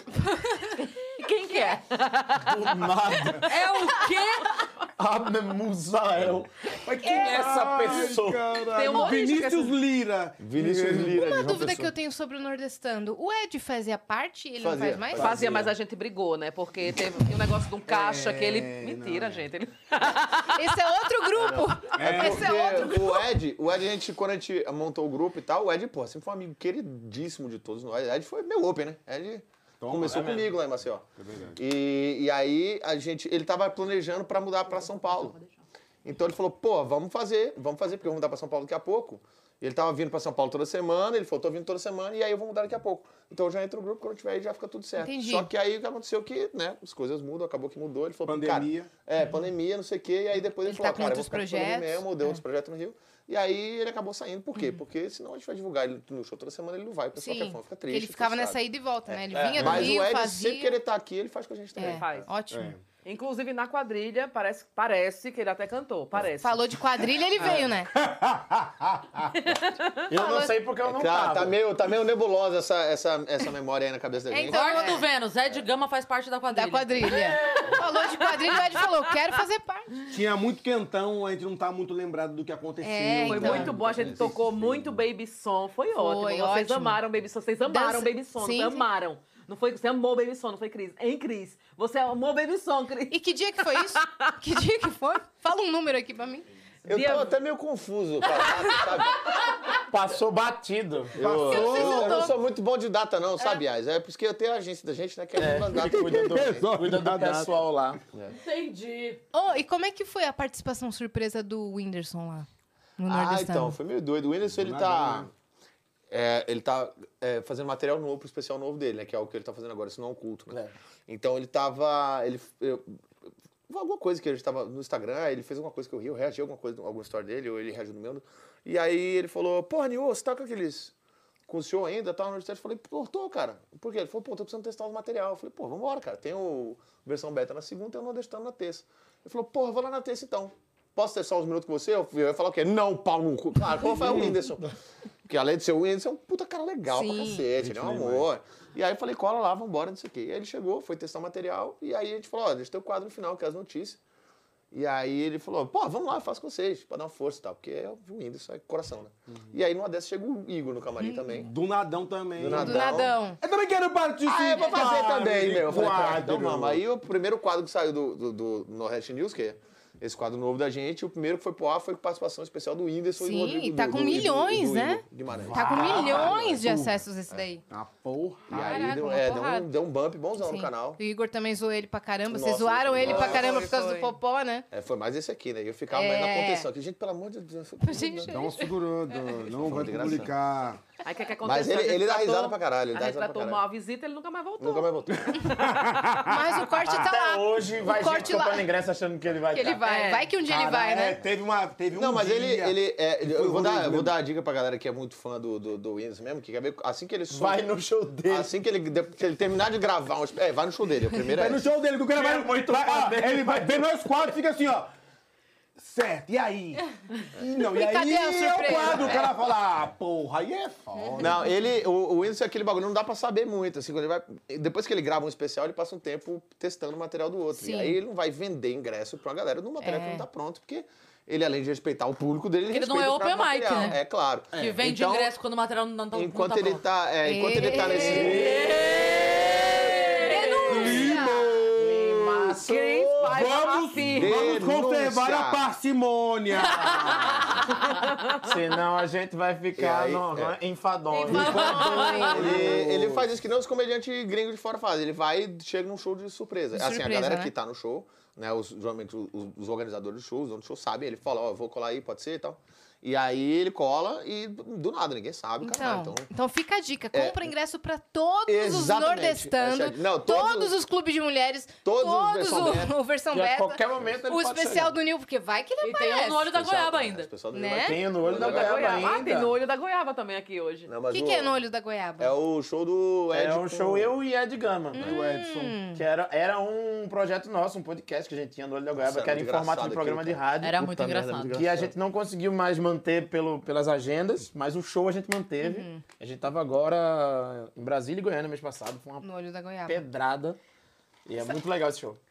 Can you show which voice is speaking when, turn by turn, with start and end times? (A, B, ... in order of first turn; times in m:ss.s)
0:00.2-0:00.8 A
0:00.8-0:03.4 B
0:02.5-0:03.5 C
0:03.4-0:04.5 D
0:05.0-0:08.4 C
0:06.8-0:11.2 E
0:07.1-0:07.5 A
0:08.7-0:09.8 B
0:10.4-0:11.9 F
0:11.1-0:15.3 A
0:14.6-0:15.7 F
0:15.2-0:20.8 B
0:17.9-0:19.5 E
0:20.5-0:23.3 A
0:21.4-0:35.4 F
0:22.0-0:22.6 E
0:29.8-0:30.5 E
0:30.0-0:30.5 C
0:31.2-0:31.6 E
0:36.0-0:58.6 F
0:45.0-0:45.5 A
0:48.3-0:48.9 E
0:50.6-0:52.4 A
0:57.2-1:00.8 A
0:59.1-1:02.3 F
0:59.4-0:59.9 C
1:01.8-1:02.8 A
1:01.8-1:02.3 B
1:02.5-1:02.8 E
1:03.0-1:06.7 B
1:06.4-1:07.9 A
1:07.4-1:09.5 E
1:09.3-1:10.1 B
1:10.1-1:11.6 C
1:10.1-1:10.6 A
1:10.8-1:15.6 F
1:14.3-1:15.0 A
1:14.5-1:17.2 D
1:16.5-1:20.0 A
1:17.2-1:18.7 B
1:20.1-1:25.0 E
1:22.8-1:23.7 A
1:23.2-1:34.3 B
1:26.0-1:27.0 A
1:27.6-1:28.8 A
1:33.1-1:36.5 A
1:36.9-1:37.4 B
1:36.9-1:39.4 F
1:39.7-1:41.2 C
1:41.2-1:46.7 F
1:41.2-1:42.3 E
1:41.4-1:42.4 A
1:45.4-1:48.0 C
1:45.8-1:47.5 E
1:48.3-1:49.2 D
1:49.3-1:52.5 A
1:53.0-1:53.8 A
1:53.1-1:55.3 F
1:54.5-1:55.3 E
1:56.1-2:03.0 F
2:03.7-2:10.9 F
2:11.5-2:24.7 F
2:24.0-2:24.4 E
2:25.3-2:34.0 F
2:26.9-2:27.5 A
2:27.6-2:28.3 E
2:34.7-2:41.5 F
2:41.0-2:41.4 A
2:41.4-2:46.8 E
2:42.4-2:43.2 F
2:42.5-2:43.4 A
2:44.2-2:56.6 F
2:53.2-2:57.6 A
2:55.5-2:56.3 C
2:55.5-2:56.9 E
2:57.7-2:59.0 E
2:58.5-3:01.0 F
2:58.5-2:59.7 A
3:00.4-3:04.7 A
3:02.3-3:03.7 F
3:03.0-3:04.1 B
3:04.7-3:08.4 F
3:05.9-3:06.7 A
3:07.8-3:09.2 A
3:08.3-3:10.8 E
3:09.5-3:10.3 F
3:11.0-3:16.2 B
3:11.4-3:13.6 F
3:14.6-3:15.5 F
3:15.4-3:16.5 E
3:16.3-3:18.7 A
3:16.8-3:19.8 C
3:19.5-3:21.2 A
3:19.9-3:20.3 B
3:20.4-3:24.1 E
3:21.9-3:27.7 F
3:27.3-3:28.5 C
3:28.2-3:31.6 F
3:31.2-3:34.9 E
3:32.1-3:34.3 C
3:35.8-3:41.5 E
3:37.6-3:39.3 A
3:41.0-3:41.4 A
3:41.2-3:55.3 F
3:47.5-3:48.0 A
3:49.8-3:50.2 A
3:52.7-3:54.0 D
3:54.5-3:56.8 D
3:56.1-3:58.7 F
3:57.2-3:58.5 A
3:58.1-3:58.7 E
3:58.2-4:00.0 C
3:58.7-4:01.1 D
4:00.2-4:01.5 A
4:00.7-4:02.5 E
4:00.8-4:01.2 C
4:01.8-4:03.7 C
4:02.6-4:04.5 B
4:03.3-4:07.6 E
4:04.1-4:05.6 F
4:08.4-4:12.4 C
4:09.8-4:10.6 F
4:11.2-4:12.2 D
4:11.2-4:12.7 A
4:11.3-4:12.3 B
4:11.3-4:26.3 F
4:12.3-4:13.3 E
4:16.7-4:17.5 A
4:25.6-4:36.5 A
4:27.1-4:27.5 F
4:28.5-4:30.7 F
4:31.8-4:32.9 F
4:33.3-4:35.0 C
4:34.0-4:34.2 F
4:35.8-4:37.3 D
4:36.5-4:39.2 F
4:37.5-4:38.1 A
4:37.8-4:39.6 C
4:38.2-4:40.9 B
4:40.9-4:41.6 F
4:41.1-4:42.3 A
4:42.2-4:44.1 F
4:43.3-4:45.0 C
4:44.9-4:46.0 A
4:45.0-4:45.8 E
4:46.0-4:50.8 C
4:49.0-4:51.9 F
4:50.6-4:51.6 D
4:51.5-4:59.2 C
4:55.6-4:56.0 A
4:59.2-5:00.0 A
4:59.9-5:00.6 C
5:01.3-5:02.2 C